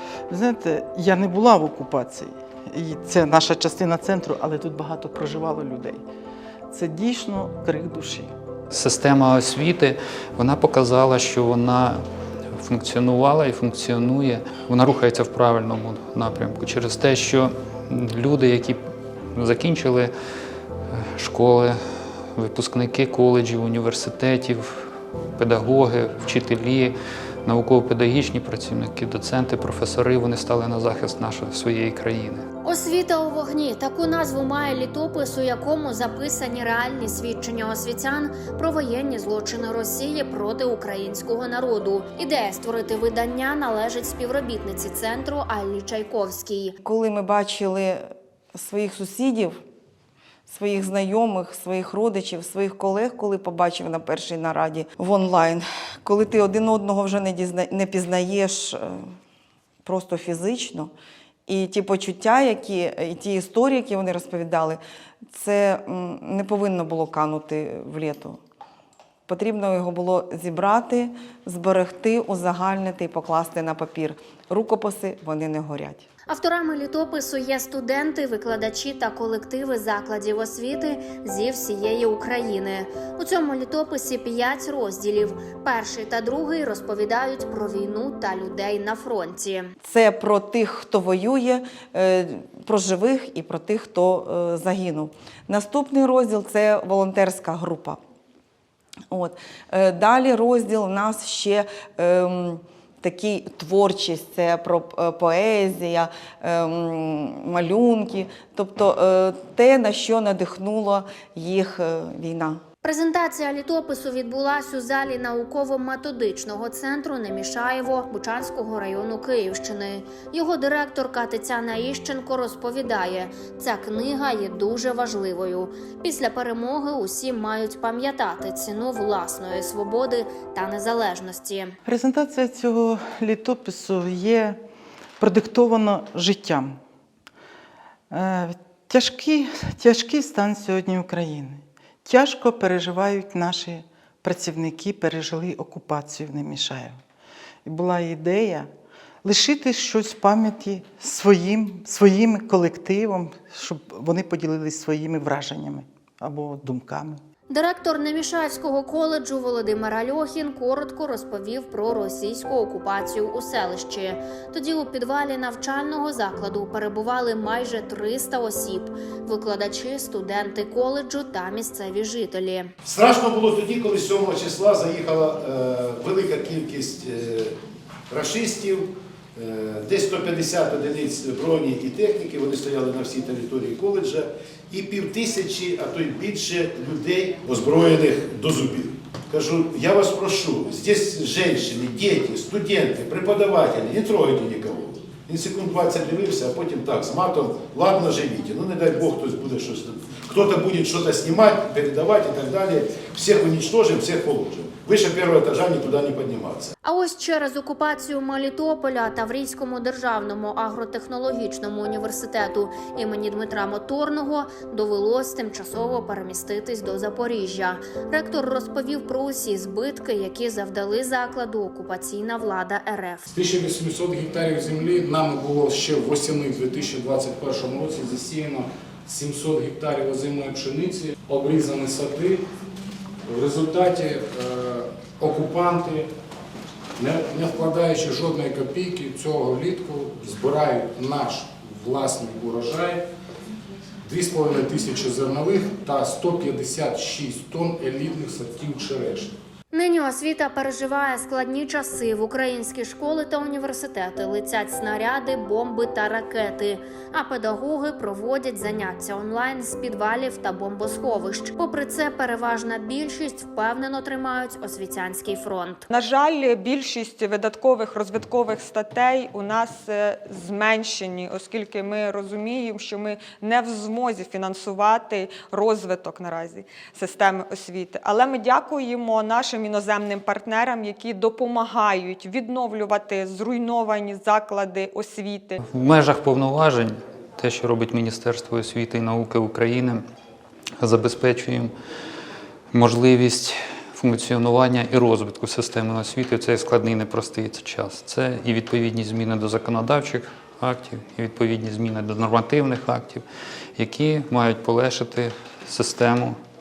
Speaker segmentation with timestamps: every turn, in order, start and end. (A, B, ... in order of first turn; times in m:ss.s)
0:00.3-0:06.0 A
0:06.7-0:08.3 A
0:08.7-0:12.0 B
0:12.6-0:18.8 B
0:19.4-0:20.1 B
0:20.9-0:21.8 B
0:22.4-0:24.9 B
0:25.4-0:32.4 B
0:32.6-0:46.8 C
0:46.8-0:49.6 D
0:50.5-0:59.1 D
0:59.8-1:00.9 D
1:01.5-1:04.8 D
1:05.3-1:08.4 D
1:09.3-1:16.1 D
1:16.3-1:29.7 C
1:29.8-1:38.0 D
1:39.1-1:52.6 D
1:52.8-2:11.8 C
2:11.8-2:14.6 A
2:15.2-2:16.8 A
2:18.1-2:27.0 A
2:27.7-2:28.7 A
2:29.2-2:37.2 A
2:37.5-2:52.7 C
2:52.8-2:57.6 E
2:58.1-3:26.7 E
3:26.8-3:43.3 C
3:43.3-3:52.4 F
3:53.3-3:56.1 F
3:57.0-4:03.0 F
4:04.0-4:09.3 F
4:09.7-4:25.9 C
4:25.9-4:45.6 G
4:45.6-4:50.0 B
4:50.8-4:51.7 B
4:52.7-5:03.2 B
5:03.8-5:06.4 B